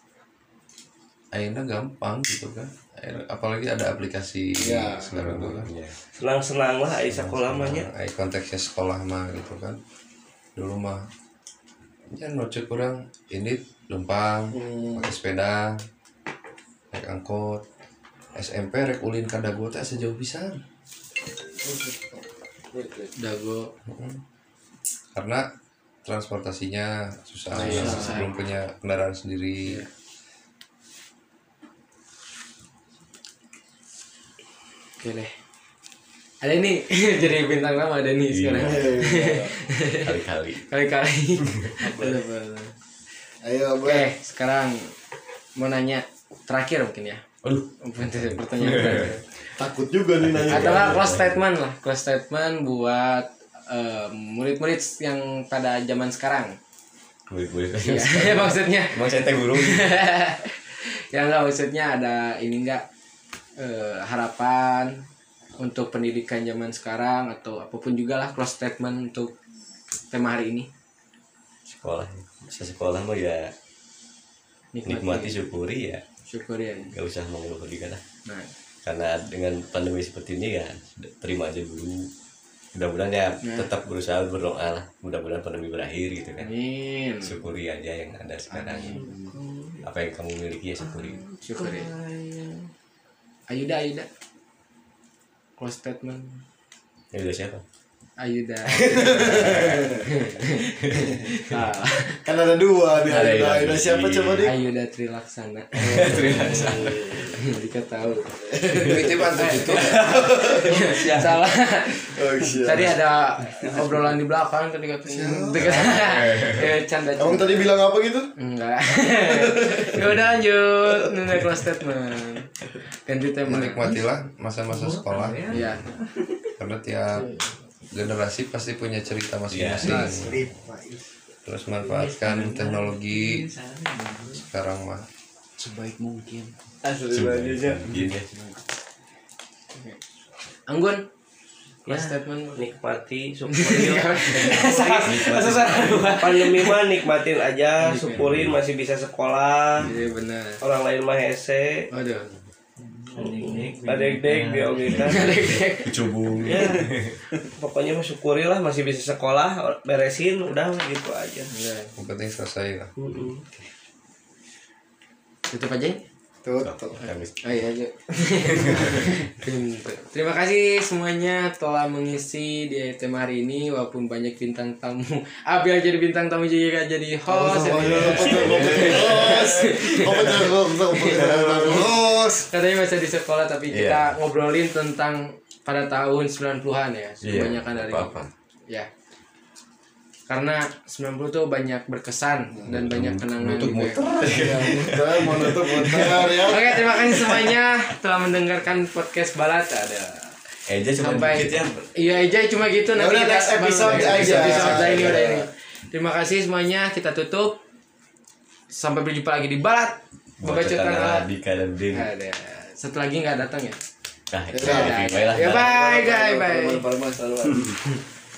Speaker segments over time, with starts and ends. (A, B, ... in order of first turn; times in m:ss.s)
0:01.3-0:05.7 A
0:04.6-0:05.1 B
0:05.1-0:06.0 C
0:06.2-0:07.9 D
0:07.1-0:09.8 A
0:10.6-0:11.1 A
0:12.1-0:15.8 A
0:14.5-0:15.1 B
0:16.9-0:17.6 A
0:18.3-0:20.6 A
0:21.6-0:23.1 B
0:23.2-0:23.7 E
0:23.8-0:24.2 A
0:25.1-0:25.5 A
0:26.0-0:29.8 A
0:27.5-0:28.3 E
0:27.6-0:28.1 B
0:35.0-0:35.4 E
0:36.4-0:40.1 E
0:38.3-0:39.0 C
0:38.6-0:39.5 B
0:39.9-0:40.6 C
0:40.7-0:42.7 E
0:43.4-0:44.0 B
0:43.8-0:44.9 E
0:45.6-0:47.2 E
0:47.4-0:49.1 C
0:47.8-0:49.2 E
0:49.5-0:51.0 B
0:50.2-0:51.4 C
0:50.5-0:56.6 E
0:57.3-0:59.9 C
0:57.8-0:59.0 E
0:59.5-1:02.8 E
1:03.6-1:05.0 E
1:05.6-1:09.3 E
1:10.1-1:10.7 E
1:11.7-1:13.5 C
1:14.7-1:15.4 E
1:14.8-1:16.0 C
1:16.3-1:16.9 E
1:16.8-1:18.0 C
1:18.2-1:18.5 E
1:18.8-1:22.1 C
1:22.7-1:26.5 C
1:23.4-1:23.7 E
1:26.4-1:27.4 E
1:27.2-1:29.0 C
1:28.5-1:29.1 E
1:28.9-1:29.8 D
1:29.8-1:31.2 C
1:30.8-1:32.7 D
1:31.4-1:31.9 E
1:33.5-1:34.1 E
1:35.6-1:36.4 E
1:37.1-1:37.6 C
1:38.2-1:42.2 E
1:38.9-1:40.0 B
1:38.9-1:40.0 C
1:40.9-1:41.4 C
1:42.2-1:44.5 B
1:43.1-1:44.5 C
1:44.4-1:46.7 E
1:45.8-1:47.2 C
1:45.8-1:47.4 B
1:47.4-1:48.3 E
1:48.5-1:50.9 B
1:48.8-1:50.0 A
1:49.4-1:49.8 E
1:49.8-1:51.2 C
1:50.5-1:52.1 E
1:52.0-1:53.0 B
1:52.6-1:57.7 E
1:55.1-1:56.3 B
1:55.5-1:56.7 C
1:57.2-1:58.3 B
1:58.4-2:02.5 E
1:59.3-2:00.0 B
2:00.0-2:00.2 C
2:03.0-2:03.9 E
2:03.4-2:05.4 A
2:04.7-2:06.2 F
2:05.5-2:05.8 E
2:05.5-2:05.8 C
2:06.6-2:07.3 A
2:07.9-2:10.3 A
2:09.5-2:10.1 C
2:09.8-2:11.1 F
2:11.4-2:13.4 A
2:11.8-2:14.4 F
2:14.4-2:15.0 A
2:15.6-2:16.5 F
2:16.8-2:17.8 D
2:17.1-2:18.3 C
2:17.8-2:18.2 F
2:20.7-2:21.0 E
2:21.8-2:22.6 E
2:21.9-2:22.2 F
2:22.5-2:30.0 D
2:23.5-2:26.8 E
2:25.0-2:26.1 C
2:27.8-2:28.3 E
2:28.1-2:28.6 C
2:29.8-2:30.6 E
2:30.6-2:31.9 D
2:31.9-2:32.3 E
2:32.8-2:35.5 F
2:33.2-2:35.3 D
2:35.0-2:35.9 E
2:35.8-2:37.2 C
2:36.4-2:36.8 D
2:37.6-2:41.5 D
2:41.5-2:41.9 E
2:42.0-2:42.9 A
2:43.0-2:43.4 D
2:45.5-2:46.0 E
2:46.4-2:47.0 B
2:46.6-2:47.4 C
2:47.4-3:08.1 E
2:48.6-2:49.1 C
2:57.3-3:02.5 B
2:57.7-2:59.4 C
3:03.7-3:04.1 C
3:07.2-3:08.3 C
3:10.3-3:14.0 E
3:12.7-3:16.4 C
3:12.7-3:14.0 A
3:14.3-3:16.7 B
3:16.4-3:20.4 E
3:16.9-3:17.5 C
3:20.7-3:21.9 C
3:21.0-3:27.6 E
3:22.9-3:25.4 B
3:23.8-3:25.0 C
3:28.7-3:31.2 E
3:30.4-3:32.1 C
3:31.9-3:33.8 E
3:34.3-3:35.7 C
3:34.5-3:37.8 B
3:34.6-3:36.8 E